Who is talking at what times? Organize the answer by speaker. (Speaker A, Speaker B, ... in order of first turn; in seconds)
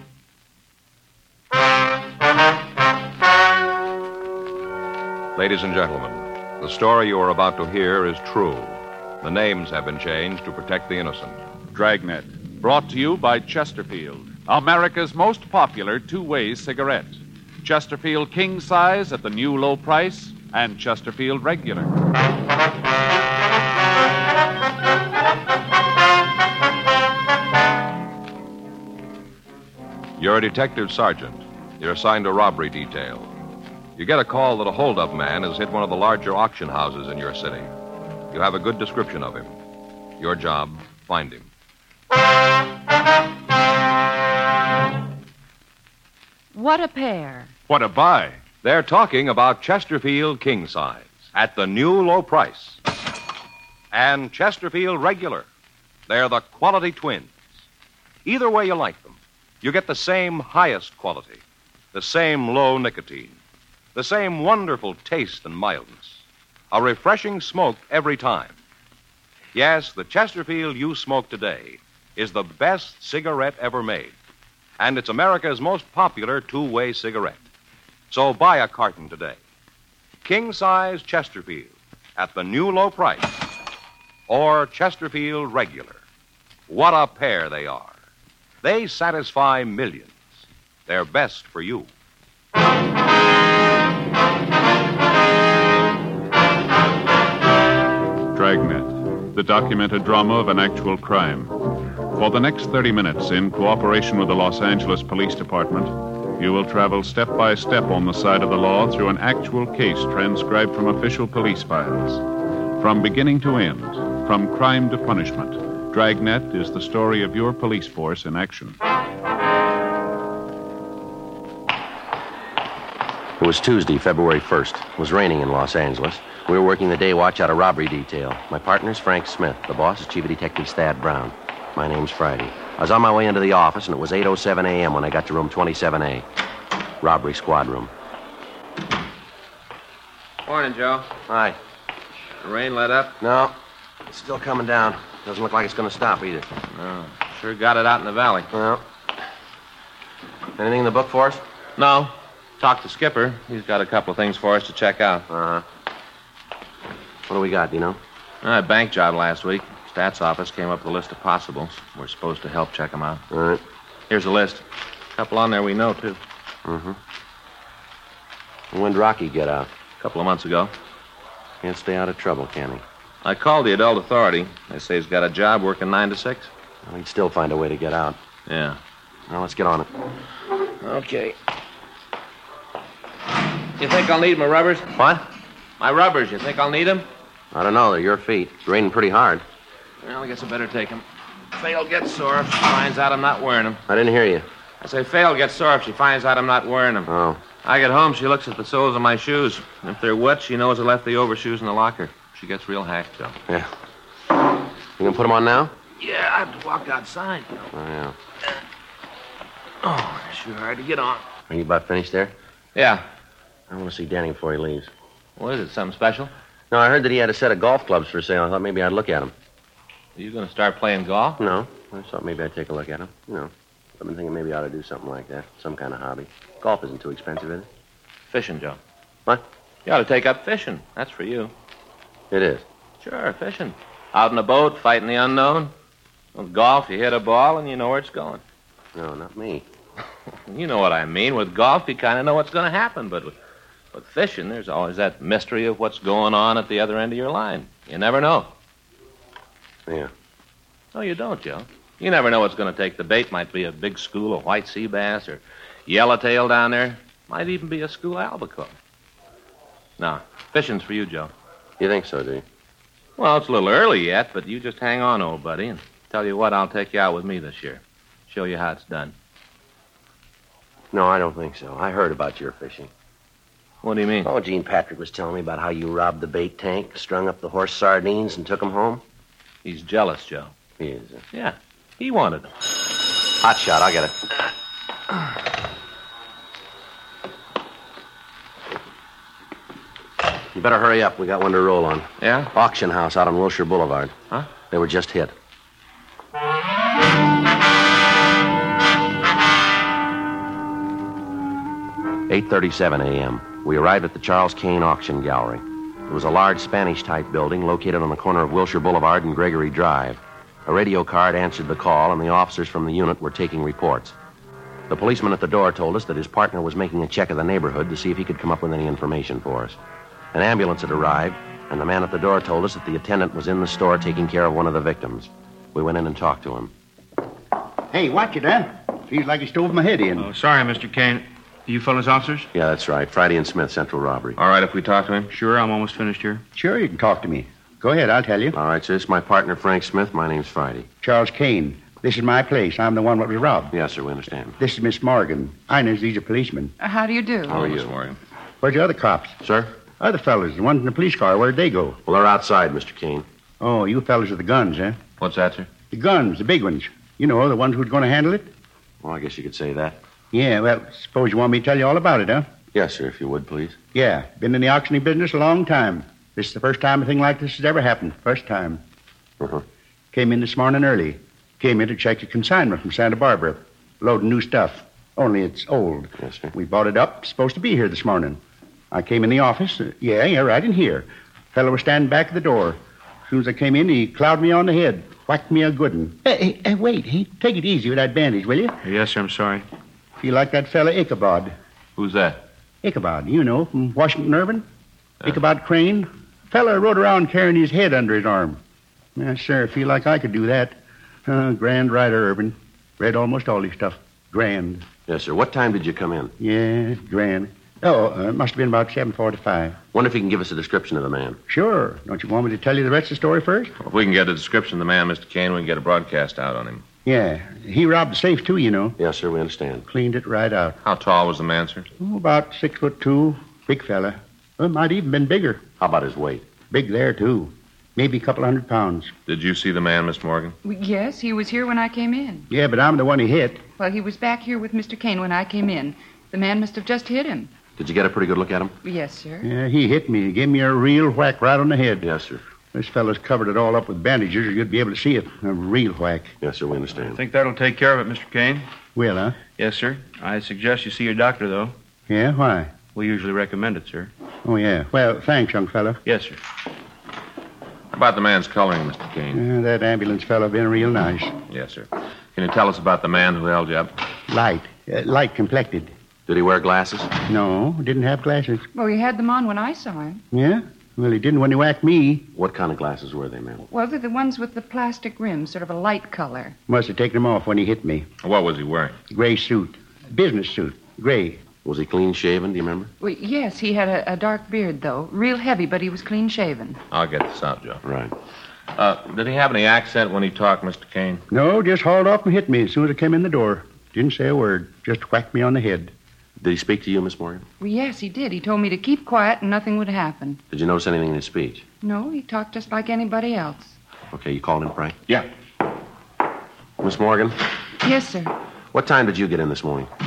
Speaker A: 5.4-11.4, 30.2-33.3, 34.0-37.7, 38.3-39.5, 40.2-41.5, 48.6-52.8, 53.9-55.5, 56.1-57.4, 58.2-63.4, 64.0-68.6, 69.5-74.2, 74.8-77.4, 78.1-79.4, 80.2-83.4, 84.3-86.0, 86.7-88.0, 88.6-90.3, 90.9-91.9
Speaker B: 11.7-21.9, 47.7-48.4, 98.3-101.5, 102.1-112.2, 112.8-118.8
Speaker C: 46.5-47.5, 346.8-347.6, 430.6-432.5, 433.8-437.5, 438.8-439.5, 468.7-470.2, 473.6-476.6, 483.0-486.8, 497.6-500.4, 501.8-503.8, 507.8-508.3
Speaker D: 123.4-136.2, 137.0-137.9, 141.3-141.6, 143.2-143.6, 144.1-146.5, 148.5-148.8, 150.6-151.4, 155.3-155.7, 157.3-158.0, 163.3-163.6, 166.7-167.0, 168.7-169.7, 171.6-172.8, 176.8-178.2, 179.3-179.9, 187.5-189.4, 193.9-194.5, 197.1-197.4, 205.0-205.7, 207.7-208.2, 211.5-212.3, 213.7-214.9, 216.7-219.3, 221.4-227.7, 232.3-232.7, 238.9-239.7, 261.8-262.4, 270.9-272.9, 274.2-279.0, 280.8-281.2, 283.3-284.1, 290.5-294.1, 294.7-295.3, 302.3-314.1, 314.9-319.8, 320.3-326.7, 332.5-334.4, 338.5-340.9, 343.7-344.6, 347.5-347.9, 349.4-349.7, 352.1-353.2, 359.0-360.0, 362.7-363.8, 376.2-376.5, 405.1-406.3, 409.9-411.4, 419.0-419.9, 425.8-426.4, 437.8-438.8, 442.0-442.4, 446.4-447.2, 466.3-467.1, 472.3-473.6, 481.6-482.9, 487.8-488.1, 496.4-497.4, 500.5-501.6, 504.1-505.2, 506.8-507.4, 508.7-509.9
Speaker E: 140.4-141.1, 142.4-143.2, 146.7-148.5, 151.8-155.2, 158.4-163.2, 164.1-164.6, 165.2-166.2, 170.0-170.7, 173.2-176.5, 178.5-178.8, 180.8-181.4, 183.8-185.0, 185.8-187.1, 190.0-193.8, 194.8-197.1, 197.6-203.4, 206.0-207.7, 209.8-211.2, 212.8-213.1, 215.4-216.3, 220.2-221.4, 228.3-228.8, 229.9-231.5, 233.0-235.7, 236.3-238.4, 240.5-243.3, 243.9-248.5, 250.9-258.8, 260.0-261.3, 263.2-269.1, 273.8-274.3, 279.6-280.5, 281.3-282.5, 292.2-292.5, 334.4-335.3, 347.5-348.2, 355.2-355.7, 391.9-392.4, 413.8-416.8, 420.8-421.9, 429.3-430.6, 457.9-459.4, 461.5-463.9, 478.2-479.0, 486.9-487.8, 488.8-491.2
Speaker F: 327.9-330.3, 336.5-338.6, 341.0-343.7, 344.6-346.7, 348.6-349.4, 350.0-352.0, 353.6-355.0, 355.9-358.5, 360.3-362.5, 363.9-368.8, 370.1-378.4, 378.9-388.8, 390.2-391.5, 392.8-394.6, 395.2-398.6, 399.1-404.9, 406.4-409.8, 411.5-413.7, 417.0-419.0, 419.9-420.8, 422.0-425.6, 426.7-429.1, 432.5-433.6, 439.4-442.1, 442.7-446.3, 448.9-449.4, 452.1-452.8, 454.4-456.0, 459.3-461.3, 464.3-465.9, 467.3-468.6, 470.3-472.3, 476.7-478.1, 479.1-481.4, 491.3-495.9
Speaker G: 330.2-332.5, 335.3-336.4, 388.8-389.6, 447.1-448.6, 449.6-451.7, 452.9-454.1, 456.0-456.4